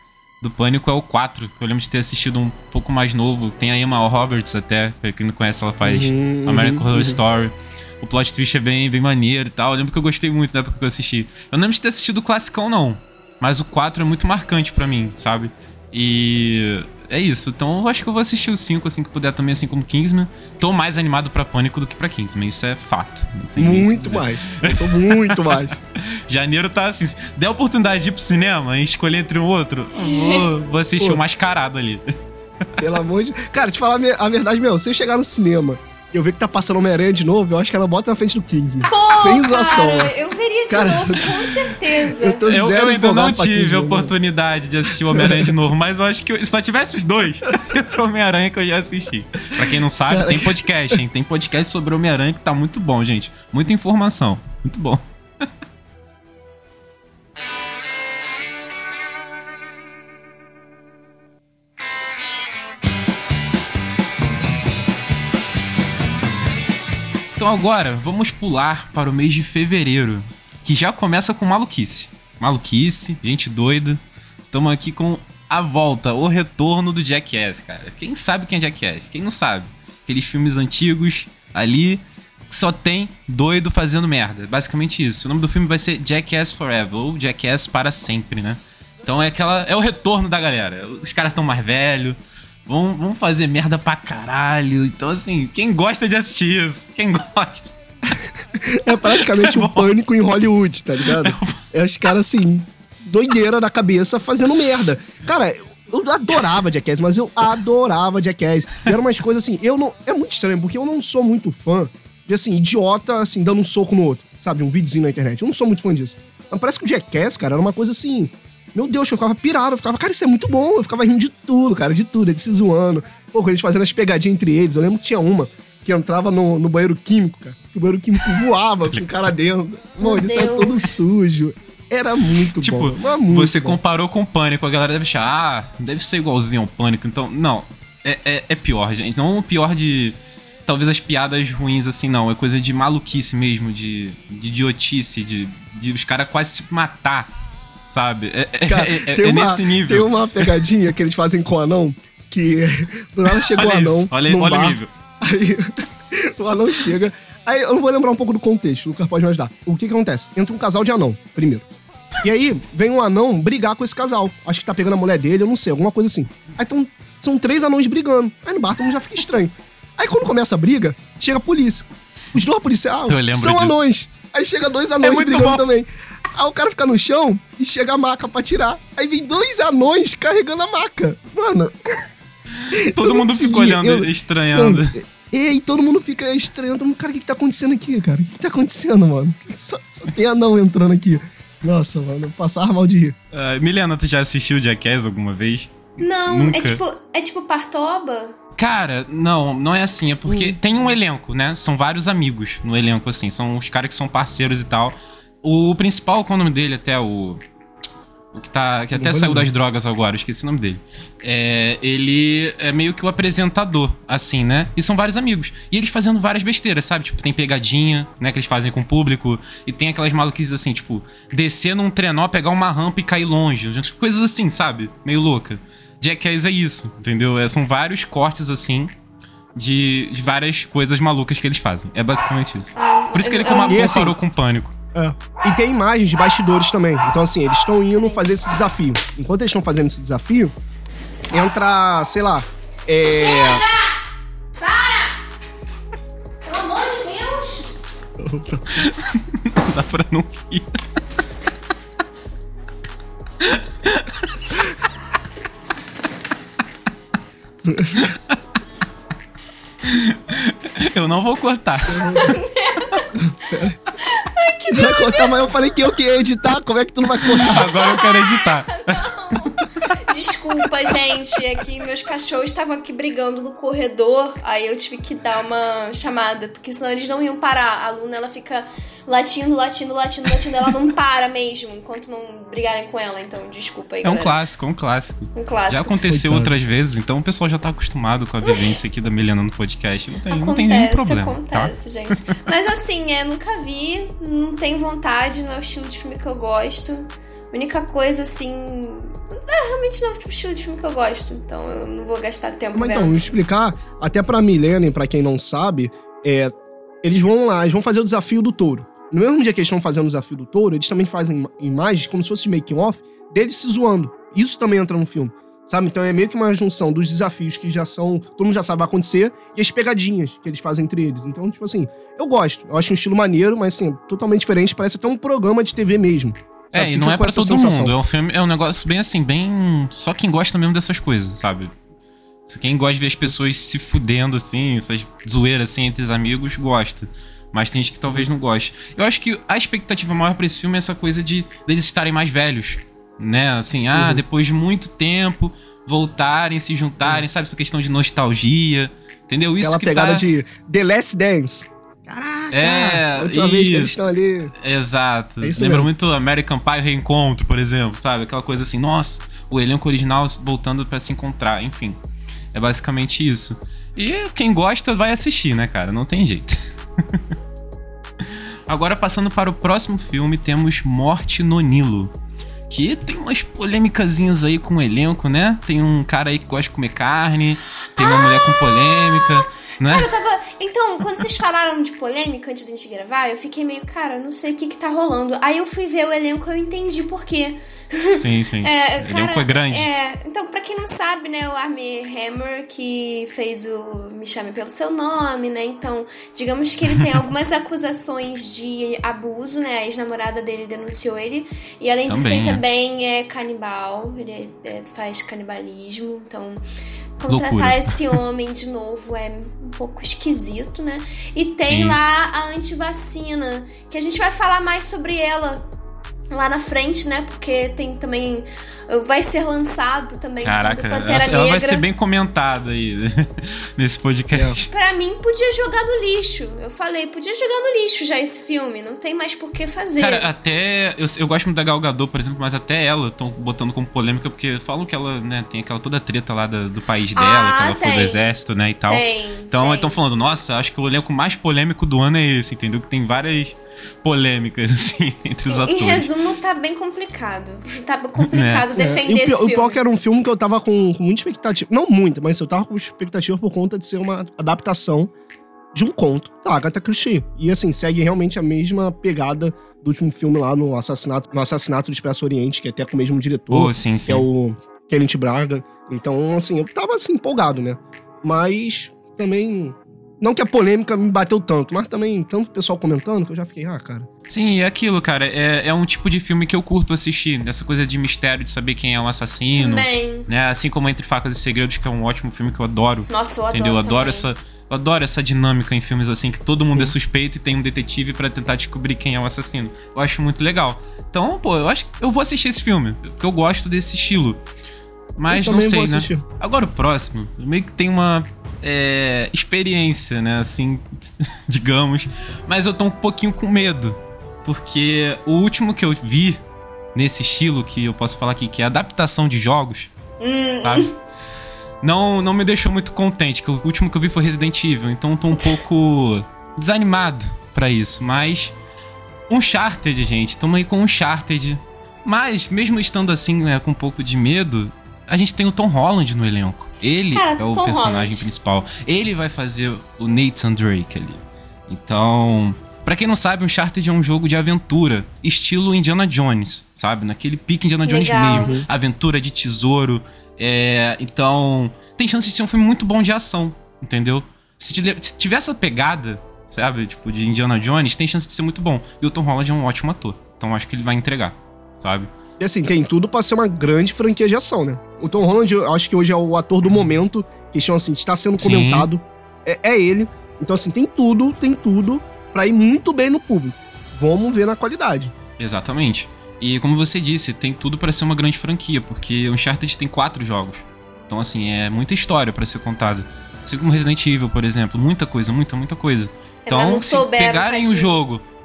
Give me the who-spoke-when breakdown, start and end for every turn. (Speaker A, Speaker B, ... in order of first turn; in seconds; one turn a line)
Speaker A: 0.4-32.0
Speaker B: 5.8-7.2
Speaker B: 23.6-25.7
Speaker B: 32.8-40.1
Speaker C: 38.9-42.5
Speaker B: 40.7-41.3
Speaker B: 42.1-44.1
Speaker A: 42.5-55.0
Speaker B: 45.1-45.5
Speaker B: 50.1-51.0
Speaker A: 67.4-74.0
Speaker A: 74.5-97.7
Speaker B: 98.1-133.8
Speaker A: 99.1-100.0
Speaker A: 101.1-101.6
Speaker C: 130.0-130.8
Speaker A: 132.6-147.3
Speaker A: 147.9-150.7
Speaker B: 148.7-161.7
Speaker A: 153.3-154.9
Speaker B: 162.2-182.0
Speaker A: 173.1-173.8
Speaker A: 175.0-175.6
Speaker A: 182.6-185.0
Speaker B: 182.7-193.2
Speaker A: 193.3-196.8
Speaker C: 196.0-198.3
Speaker A: 198.6-207.4
Speaker B: 200.2-200.6
Speaker A: 208.3-228.9
Speaker B: 208.9-209.5
Speaker A: 229.6-234.7
Speaker C: 232.8-234.1
Speaker B: 233.6-234.2
Speaker B: 234.9-240.5
Speaker B: 241.3-243.6
Speaker C: 243.0-243.9
Speaker C: 244.6-245.1
Speaker C: 246.4-247.7
Speaker B: 248.2-248.7
Speaker A: 248.7-250.7
Speaker A: 253.4-254.7
Speaker B: 257.6-258.1
Speaker A: 258.1-258.4
Speaker A: 259.8-262.3
Speaker B: 261.9-262.4
Speaker C: 262.1-263.1
Speaker B: 263.2-263.8
Speaker C: 264.0-265.7
Speaker B: 264.7-267.7
Speaker A: 267.3-269.5
Speaker C: 267.5-284.3
Speaker A: 284.0-291.7
Speaker C: 285.4-286.0
Speaker B: 286.1-286.5
Speaker C: 290.3-303.1
Speaker B: 302.7-327.9
Speaker A: 326.7-331.7
Speaker A: 332.5-350.2
Speaker B: 343.9-344.2
Speaker B: 349.6-354.5
Speaker A: 352.5-354.1
Speaker A: 354.6-362.0
Speaker B: 355.4-355.9
Speaker A: 362.5-366.6
Speaker A: 368.7-372.1
Speaker A: 372.7-380.1
Speaker C: 378.0-406.6
Speaker A: 388.2-389.9
Speaker A: 402.1-402.6
Speaker C: 407.2-415.6
Speaker A: 407.3-408.0
Speaker A: 411.6-412.0
Speaker C: 416.3-421.8
Speaker A: 420.4-424.7
Speaker C: 424.7-430.3
Speaker A: 430.0-446.1
Speaker C: 437.1-438.2
Speaker C: 438.9-440.0
Speaker C: 445.5-449.8
Speaker A: 448.2-448.7
Speaker B: 448.8-455.1
Speaker B: 455.7-474.1
Speaker A: 463.5-464.3
Speaker A: 474.3-494.4
Speaker C: 479.6-480.3
Speaker C: 483.1-484.3
Speaker A: 495.2-506.4
Speaker B: 495.3-496.2
Speaker A: 506.9-509.9
Speaker C: 510.2-510.9
Speaker A: 511.8-518.5
Speaker A: 519.3-552.1
Speaker C: 527.1-528.2
Speaker C: 537.9-538.5
Speaker B: 538.3-538.6
Speaker B: 552.4-565.1
Speaker A: 558.4-558.9
Speaker A: 565.4-578.2
Speaker C: 576.5-577.9